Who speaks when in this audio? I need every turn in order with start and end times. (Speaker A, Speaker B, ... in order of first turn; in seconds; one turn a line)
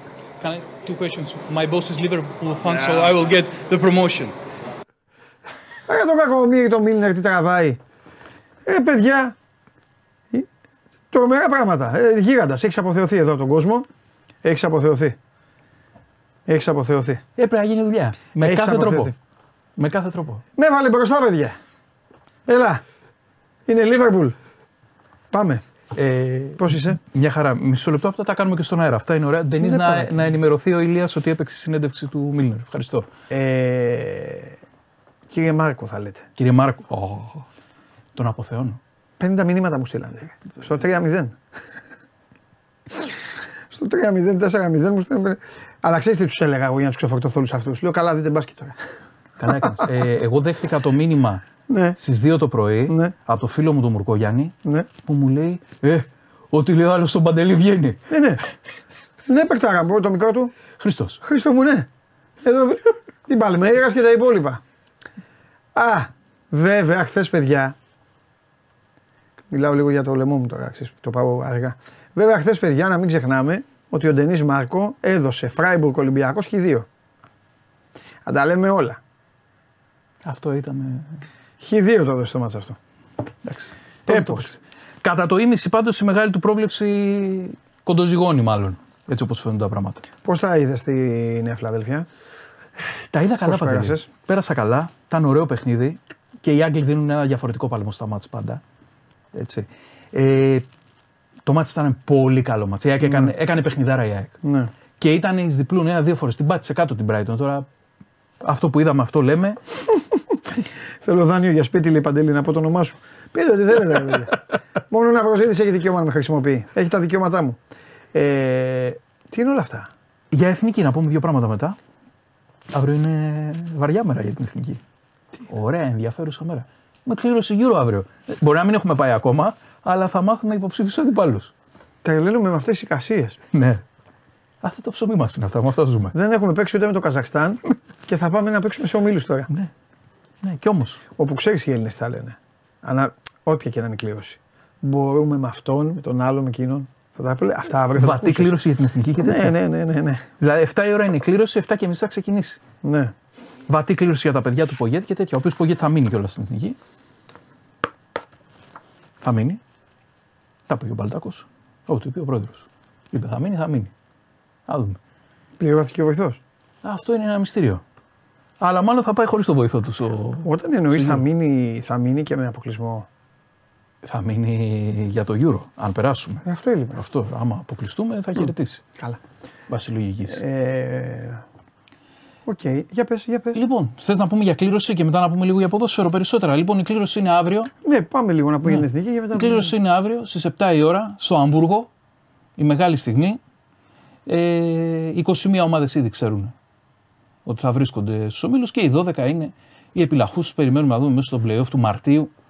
Speaker A: 0.4-4.3
Speaker B: 5.9-7.8
Speaker B: 8.7-9.3
Speaker B: 11.1-13.9
Speaker B: 14.4-15.2
Speaker B: 16.5-17.2
Speaker C: 17.4-19.1
Speaker B: 18.4-19.1
Speaker C: 19.8-20.4
Speaker B: 20.6-21.6
Speaker B: 22.5-22.8
Speaker B: 23.7-24.4
Speaker B: 25.3-25.6
Speaker C: 26.0-33.1
Speaker B: 26.6-27.0
Speaker B: 29.6-30.3
Speaker B: 33.3-34.5
Speaker B: 35.3-36.3
Speaker C: 36.4-37.5
Speaker C: 38.1-38.8
Speaker B: 39.2-41.4
Speaker B: 43.7-49.9
Speaker C: 49.4-51.5
Speaker B: 51.7-52.0
Speaker C: 52.0-58.0
Speaker B: 52.9-53.1
Speaker B: 58.1-58.4
Speaker B: 59.3-60.5
Speaker C: 60.8-61.2
Speaker B: 61.2-61.9
Speaker B: 62.4-64.6
Speaker B: 65.8-67.8
Speaker B: 69.5-76.9
Speaker B: 78.3-79.0
Speaker C: 80.2-81.2
Speaker B: 81.6-82.8
Speaker C: 83.5-90.0
Speaker B: 84.1-84.5
Speaker B: 90.2-92.1
Speaker C: 93.1-98.6
Speaker B: 93.5-94.1
Speaker C: 99.3-100.7
Speaker C: 101.5-104.4
Speaker B: 103.0-103.3
Speaker B: 104.4-104.7
Speaker C: 105.0-107.7
Speaker C: 108.4-109.6
Speaker B: 111.0-114.4
Speaker B: 114.9-117.6
Speaker B: 118.1-119.9
Speaker C: 120.3-121.8
Speaker C: 122.7-124.8
Speaker C: 125.5-131.5
Speaker B: 132.0-133.4
Speaker C: 133.5-133.8
Speaker C: 134.6-136.1
Speaker B: 136.1-139.5
Speaker C: 140.4-141.0
Speaker B: 141.2-148.6
Speaker C: 147.9-149.6
Speaker B: 149.2-150.3
Speaker C: 150.4-152.6
Speaker B: 152.8-153.1
Speaker C: 153.7-156.8
Speaker C: 159.2-159.6
Speaker C: 160.7-163.9
Speaker C: 164.7-165.0
Speaker B: 165.6-166.4
Speaker C: 166.8-167.8
Speaker C: 168.6-171.2
Speaker B: 170.4-173.1
Speaker C: 174.0-176.4
Speaker B: 176.4-177.0
Speaker C: 177.0-178.9
Speaker C: 179.7-180.4
Speaker B: 180.2-181.4
Speaker B: 182.5-183.6
Speaker C: 183.5-187.7
Speaker B: 187.8-189.7
Speaker C: 188.7-191.9
Speaker C: 192.6-193.4
Speaker C: 194.3-196.5
Speaker C: 197.4-202.3